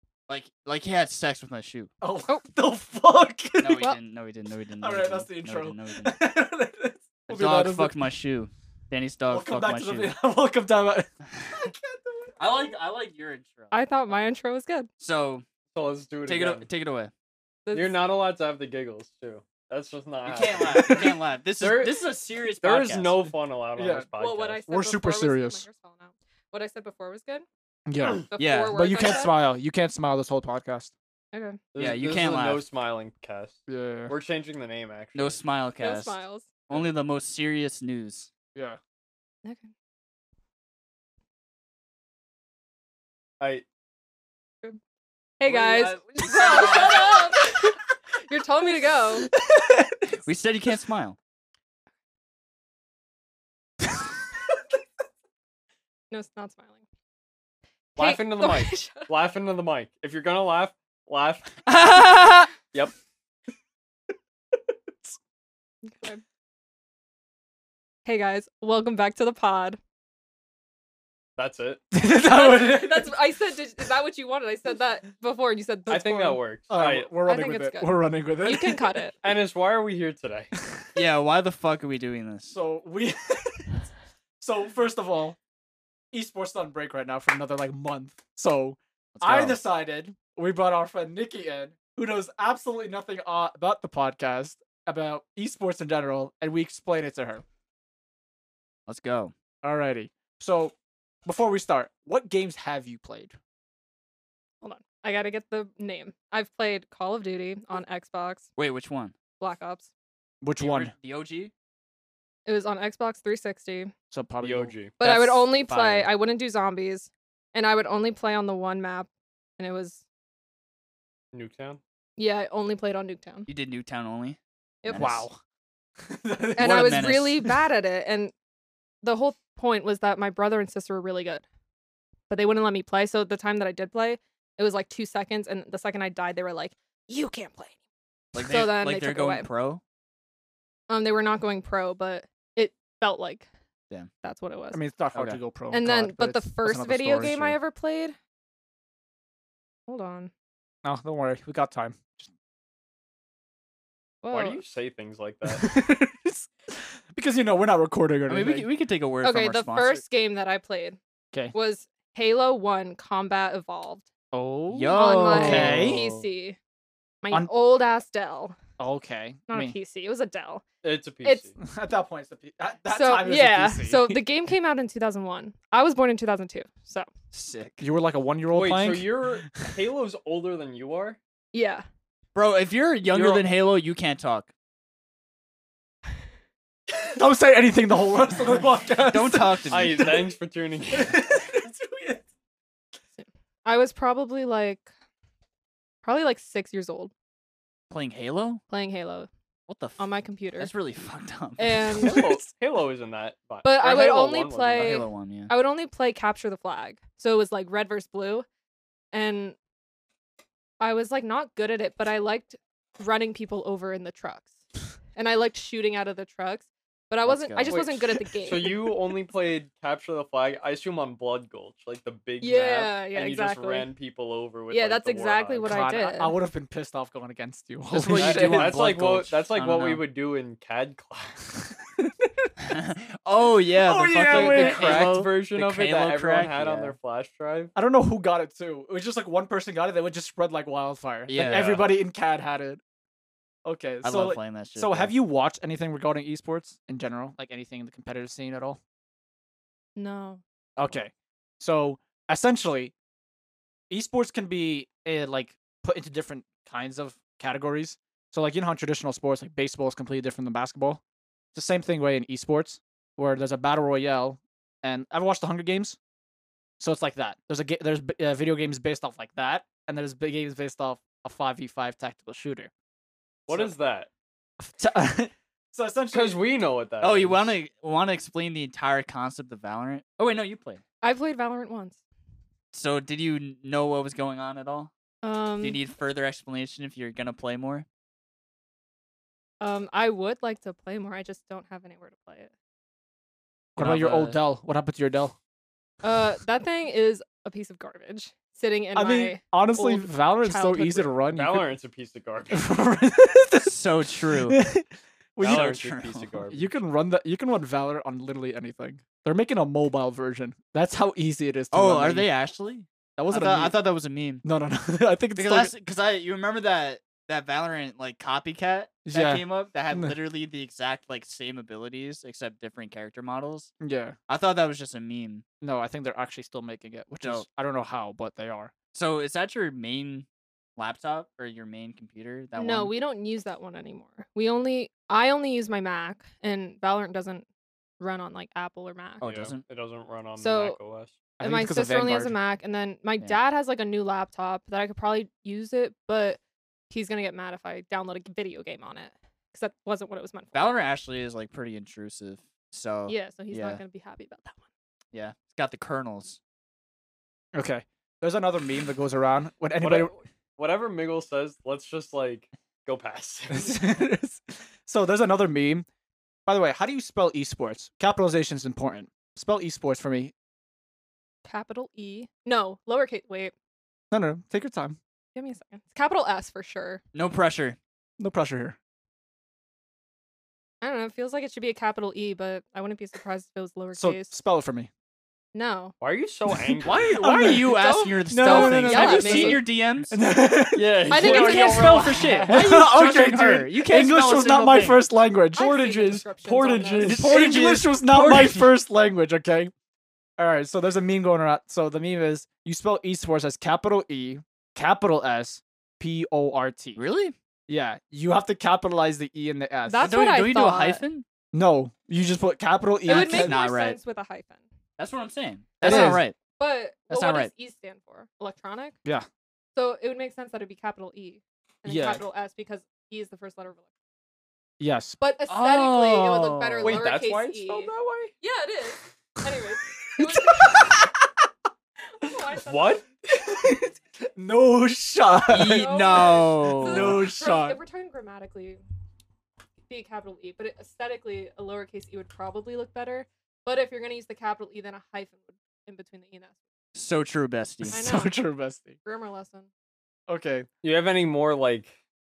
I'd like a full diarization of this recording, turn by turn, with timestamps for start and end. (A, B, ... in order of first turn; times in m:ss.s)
0:00.3-0:01.9 A
0:02.0-0:04.0 B
0:03.6-0:06.2 A
0:04.8-0:08.0 B
0:07.3-0:10.1 A
0:09.3-0:12.3 B
0:12.4-0:13.8 A
0:13.7-0:14.9 C
0:15.0-0:15.4 A
0:15.7-0:16.7 D
0:16.2-0:17.1 A
0:17.6-0:18.0 C
0:17.7-0:20.9 D
0:20.2-0:23.3 A
0:20.7-0:21.1 B
0:21.6-0:22.0 D
0:22.6-0:24.6 D
0:23.8-0:24.1 B
0:24.2-0:27.4 C
0:24.7-0:25.6 B
0:27.9-0:30.9 B
0:28.3-0:29.4 C
0:28.4-0:28.9 A
0:31.3-0:31.6 C
0:31.7-0:35.4 D
0:31.8-0:32.6 A
0:33.7-0:34.1 B
0:35.1-0:36.2 A
0:35.8-0:36.5 C
0:36.7-0:38.3 A
0:43.4-0:43.6 D
0:45.4-0:49.3 C
0:45.4-0:47.2 A
0:49.2-0:50.2 B
0:50.2-0:51.2 A
0:56.1-0:56.8 C
0:58.0-0:59.1 C
0:58.0-1:01.7 D
1:01.7-1:02.5 C
1:05.9-1:06.2 C
1:08.0-1:09.8 C
1:11.4-1:11.8 D
1:11.9-1:13.1 B
1:12.1-1:16.4 C
1:15.9-1:17.1 D
1:16.7-1:19.0 B
1:17.2-1:19.1 C
1:19.2-1:20.5 D
1:20.9-1:22.5 A
1:22.5-1:23.9 B
1:24.4-1:25.4 B
1:26.1-1:37.4 B
1:29.1-1:29.6 A
1:38.9-1:39.3 A
1:39.6-1:40.7 B
1:41.2-1:43.4 B
1:44.6-1:48.5 C
1:48.6-1:49.1 A
1:49.4-1:49.9 C
1:50.4-1:50.9 B
1:50.6-1:51.5 A
1:52.4-1:53.9 C
1:54.1-1:55.5 B
1:54.4-1:54.9 D
1:55.0-2:00.0 C
1:55.6-1:56.1 A
2:01.3-2:01.8 D
2:02.2-2:03.5 C
2:03.5-2:05.2 A
2:04.8-2:05.1 C
2:04.9-2:05.4 B
2:06.0-2:07.5 B
2:06.6-2:08.3 C
2:06.6-2:07.4 A
2:09.0-2:11.4 C
2:12.3-2:17.8 C
2:18.3-2:19.8 A
2:18.3-2:19.5 C
2:20.9-2:23.5 C
2:24.2-2:24.8 C
2:24.7-2:27.6 B
2:25.1-2:25.4 A
2:25.7-2:28.2 C
2:29.9-2:30.3 C
2:30.8-2:32.3 B
2:34.2-2:34.6 C
2:34.3-2:35.7 D
2:35.4-2:38.7 B
2:38.3-2:40.0 A
2:39.2-2:41.0 C
2:41.5-2:44.1 C
2:44.3-2:46.0 B
2:44.7-2:46.2 A
2:44.9-2:46.6 C
2:45.4-2:45.8 D
2:47.2-2:48.6 C
2:48.8-2:49.7 B
2:49.5-2:50.6 C
2:50.8-2:51.5 D
2:51.6-2:54.2 B
2:52.9-2:57.1 C
2:57.3-2:57.8 A
2:57.8-2:59.7 B
2:58.5-3:01.2 D
3:01.5-3:01.8 C
3:02.3-3:04.5 A
3:03.1-3:03.4 D
3:07.1-3:10.2 B
3:09.0-3:10.1 A
3:09.7-3:11.5 D
3:10.9-3:12.2 B
3:13.2-3:14.9 C
3:16.0-3:17.1 C
3:17.9-3:18.6 A
3:18.7-3:19.3 C
3:19.7-3:21.9 A
3:20.0-3:20.7 C
3:21.6-3:22.4 C
3:22.0-3:25.0 D
3:23.6-3:28.4 C
3:24.8-3:25.5 A
3:29.1-3:29.6 C
3:30.8-3:34.5 C
3:35.1-3:38.9 C
3:37.2-3:37.8 A
3:37.7-3:45.7 D
3:42.4-3:43.9 C
3:44.7-3:46.4 C
3:45.6-3:48.8 B
3:47.9-3:50.0 A
3:48.1-3:51.4 D
3:52.6-3:57.0 A
3:53.8-3:55.2 B
3:54.1-3:57.7 D
3:57.7-4:02.8 B
4:01.3-4:01.9 A
4:03.6-4:08.8 B
4:04.0-4:05.1 A
4:10.0-4:10.4 C
4:10.8-4:12.9 B
4:13.9-4:21.0 B
4:21.5-4:26.0 B
4:26.8-4:32.7 B
4:33.5-4:33.8 B
4:33.5-4:34.1 D
4:34.6-4:36.4 B
4:36.1-4:37.5 D
4:37.0-4:40.8 A
4:41.0-4:42.0 C
4:42.7-4:44.9 A
4:45.2-4:45.8 C
4:45.6-4:47.8 A
4:49.6-4:52.5 C
4:53.8-4:55.4 B
4:53.8-4:54.4 A
4:56.0-5:01.2 C
4:58.9-5:01.7 B
5:01.3-5:02.6 D
5:02.5-5:05.8 B
5:03.6-5:04.6 A
5:05.4-5:06.6 D
5:05.5-5:06.4 A
5:06.5-5:12.3 B
5:11.7-5:14.4 A
5:13.2-5:13.8 B
5:14.4-5:15.7 B
5:15.4-5:23.7 A
5:19.0-5:20.2 B
5:23.8-5:24.1 B
5:24.3-5:25.4 A
5:25.6-5:28.7 B
5:28.9-5:30.2 A
5:30.8-5:32.9 A
5:32.6-5:37.4 C
5:38.0-5:39.2 C
5:39.2-5:39.6 A
5:39.2-5:41.2 D
5:40.4-5:40.8 C
5:41.4-5:42.3 B
5:41.4-5:50.7 C
5:50.5-5:53.8 A
5:53.1-5:54.6 C
5:55.1-5:56.4 A
5:57.5-6:00.1 B
5:59.8-6:03.8 D
6:03.5-6:05.8 B
6:06.4-6:10.3 B
6:11.4-6:13.5 C
6:14.1-6:15.0 B
6:15.3-6:17.0 C
6:17.1-6:17.8 A
6:18.2-6:18.8 B
6:20.8-6:24.4 C
6:24.0-6:24.9 B
6:25.5-6:25.9 C
6:26.0-6:27.0 D
6:26.5-6:35.7 B
6:26.9-6:30.1 A
6:27.5-6:29.6 C
6:30.7-6:32.6 D
6:31.1-6:32.4 C
6:32.4-6:35.0 A
6:35.5-6:37.1 C
6:35.6-6:37.8 D
6:37.0-6:39.7 B
6:37.0-6:38.7 A
6:40.4-6:47.0 B
6:47.0-6:47.3 A
6:47.7-6:50.1 B
6:49.9-6:51.0 C
6:50.0-6:51.2 A
6:51.5-6:53.6 B
6:53.0-6:54.6 C
6:53.1-6:54.0 A
6:55.0-6:56.4 A
6:55.8-6:59.0 C
6:55.8-6:56.2 B
6:57.1-6:57.5 A
6:59.7-7:03.8 C
7:01.8-7:02.2 B
7:04.8-7:05.2 B
7:05.2-7:11.0 C
7:05.5-7:07.0 A
7:06.8-7:08.3 D
7:10.2-7:10.8 B
7:12.2-7:13.0 C
7:12.6-7:13.6 D
7:13.4-7:17.8 B
7:15.5-7:17.2 A
7:15.6-7:18.8 C
7:19.9-7:26.5 C
7:26.9-7:28.0 A
7:27.9-7:28.9 B
7:27.9-7:28.3 C
7:29.0-7:29.7 C
7:30.3-7:30.7 B
7:30.8-7:31.9 D